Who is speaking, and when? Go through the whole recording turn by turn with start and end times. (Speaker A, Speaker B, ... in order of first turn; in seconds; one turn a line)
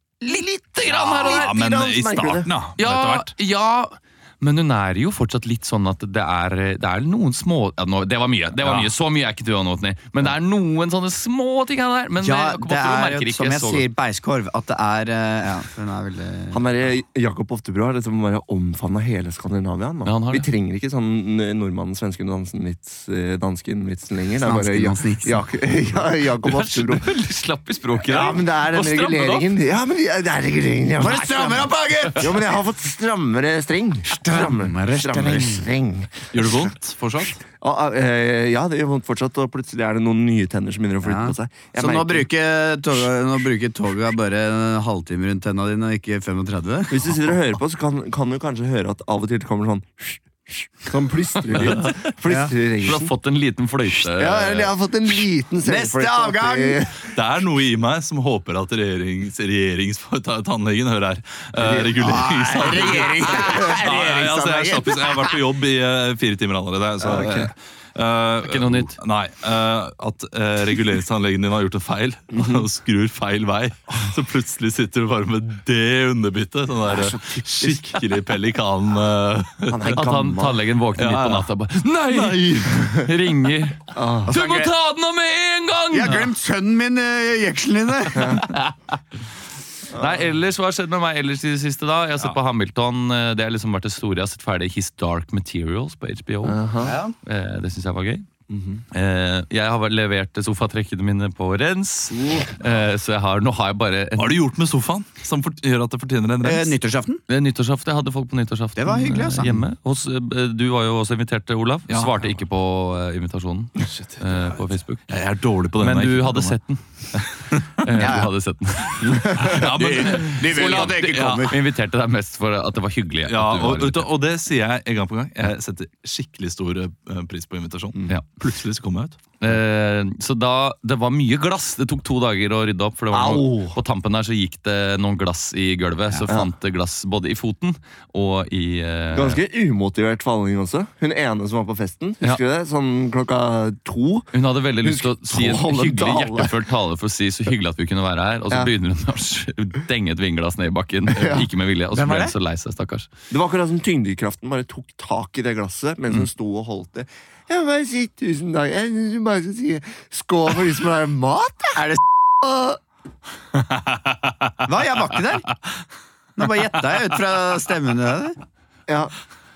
Speaker A: 0.2-0.8
Speaker B: 0.7-1.5
Speaker C: 0.9-2.5
Speaker D: 1.2-3.3
Speaker B: 2.8-13.9
Speaker A: 12.2-16.6
Speaker C: 16.5-27.0
Speaker B: 20.0-20.5
Speaker A: 24.4-25.4
Speaker B: 26.4-29.5
Speaker C: 28.1-36.7
Speaker A: 31.0-32.4
Speaker A: 34.1-35.6
Speaker D: 36.3-37.4
Speaker C: 37.6-42.3
Speaker A: 41.0-47.2
Speaker C: 46.9-53.1
Speaker D: 51.6-51.9
Speaker A: 52.2-52.5
Speaker B: 52.8-54.7
Speaker C: 53.9-57.1
Speaker A: 55.6-56.8
Speaker D: 57.1-80.0
Speaker C: 61.6-61.9
Speaker A: 61.9-65.4
Speaker C: 62.7-63.8
Speaker C: 67.0-67.5
Speaker B: 68.4-69.0
Speaker C: 72.3-72.6
Speaker C: 76.9-78.0
Speaker C: 79.7-80.6
Speaker B: 80.0-86.3
Speaker D: 81.0-81.5
Speaker D: 82.1-82.6
Speaker C: 83.9-84.3
Speaker A: 84.3-84.7
Speaker A: 85.9-88.5
Speaker C: 88.2-88.4
Speaker B: 88.4-88.7
Speaker C: 89.9-90.2
Speaker B: 89.9-96.6
Speaker C: 96.4-97.0
Speaker A: 96.8-97.1
Speaker B: 97.2-98.3
Speaker C: 98.5-98.8
Speaker B: 98.9-104.4
Speaker A: 102.1-102.5
Speaker D: 104.2-106.7
Speaker A: 106.4-107.2
Speaker B: 107.3-115.1
Speaker A: 108.8-109.5
Speaker D: 111.9-112.3
Speaker D: 113.8-116.6
Speaker B: 115.8-119.2
Speaker D: 117.1-118.1
Speaker A: 118.0-118.3
Speaker C: 119.1-119.6
Speaker D: 119.4-121.5
Speaker A: 119.4-121.6
Speaker B: 121.5-124.1
Speaker D: 123.3-129.2
Speaker B: 129.4-139.4
Speaker C: 133.1-133.8
Speaker C: 139.1-144.3
Speaker B: 144.3-153.1
Speaker C: 144.8-146.5
Speaker C: 151.2-151.5
Speaker A: 151.9-152.3
Speaker C: 153.3-162.8
Speaker D: 163.6-164.5
Speaker A: 164.7-165.5
Speaker A: 166.4-168.4
Speaker C: 168.9-169.1